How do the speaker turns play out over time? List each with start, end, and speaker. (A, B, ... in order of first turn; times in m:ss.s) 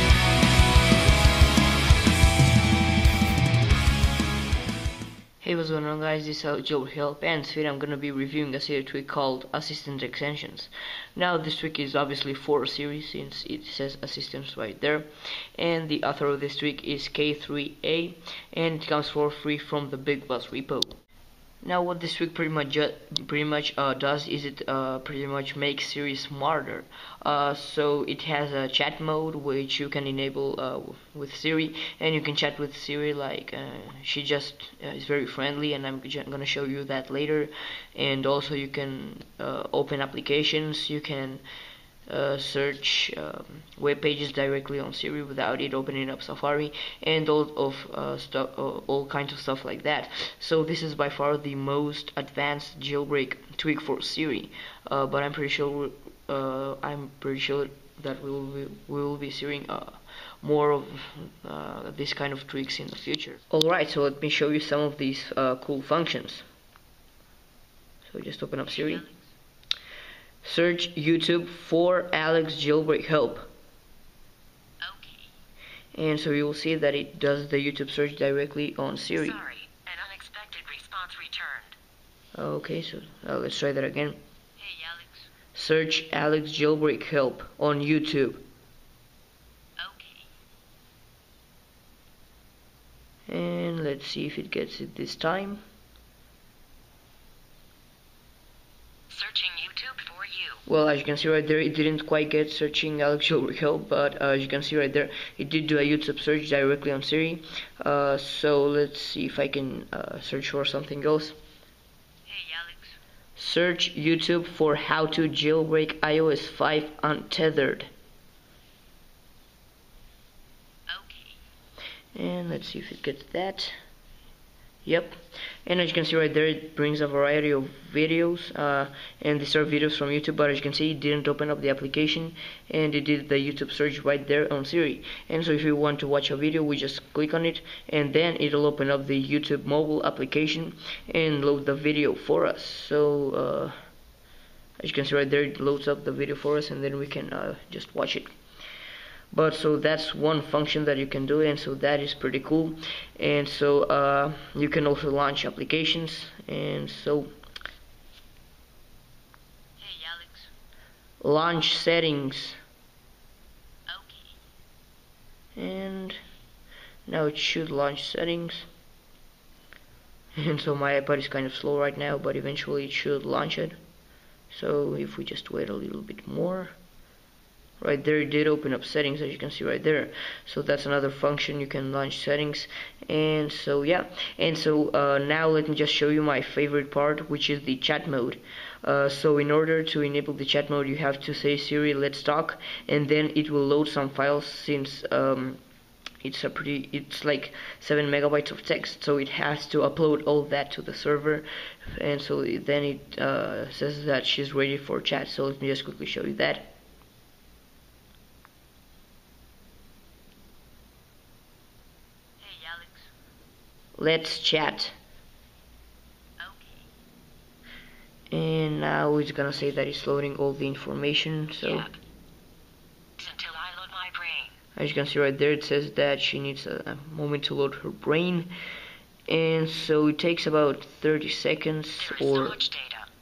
0:05.4-0:21.0 A
0:21.6-0:41.4 A
0:42.1-1:06.5 A
1:08.1-1:09.1 A
1:10.4-1:13.5 A
1:14.8-1:15.3 B
1:15.9-1:19.4 A
1:19.2-1:21.8 B
1:22.3-1:24.2 A
1:24.6-1:25.2 B
1:25.5-1:28.4 A
1:29.8-1:30.3 B
1:33.3-1:35.6 A
1:39.1-1:40.6 B
1:40.7-1:51.4 A
1:52.3-1:52.9 B
1:53.4-1:57.9 A
2:00.9-2:01.4 B
2:02.2-2:03.7 A
2:04.8-2:23.7 A
2:24.8-2:28.3 A
2:29.3-2:37.3 A
2:39.8-2:40.5 B
2:41.2-2:42.6 A
2:43.9-2:44.3 B
2:45.6-2:46.2 A
2:47.1-2:48.7 A
2:50.4-2:53.8 A
2:54.5-2:56.8 A
2:57.8-3:15.6 A
3:16.2-3:26.7 A
3:32.4-3:33.1 B
3:34.0-3:35.0 A
3:36.4-3:36.8 B
3:38.3-3:41.9 A
3:41.6-3:42.0 B
3:43.2-3:44.6 B
3:44.8-3:48.5 A
3:49.3-3:52.6 A
3:52.0-3:53.1 B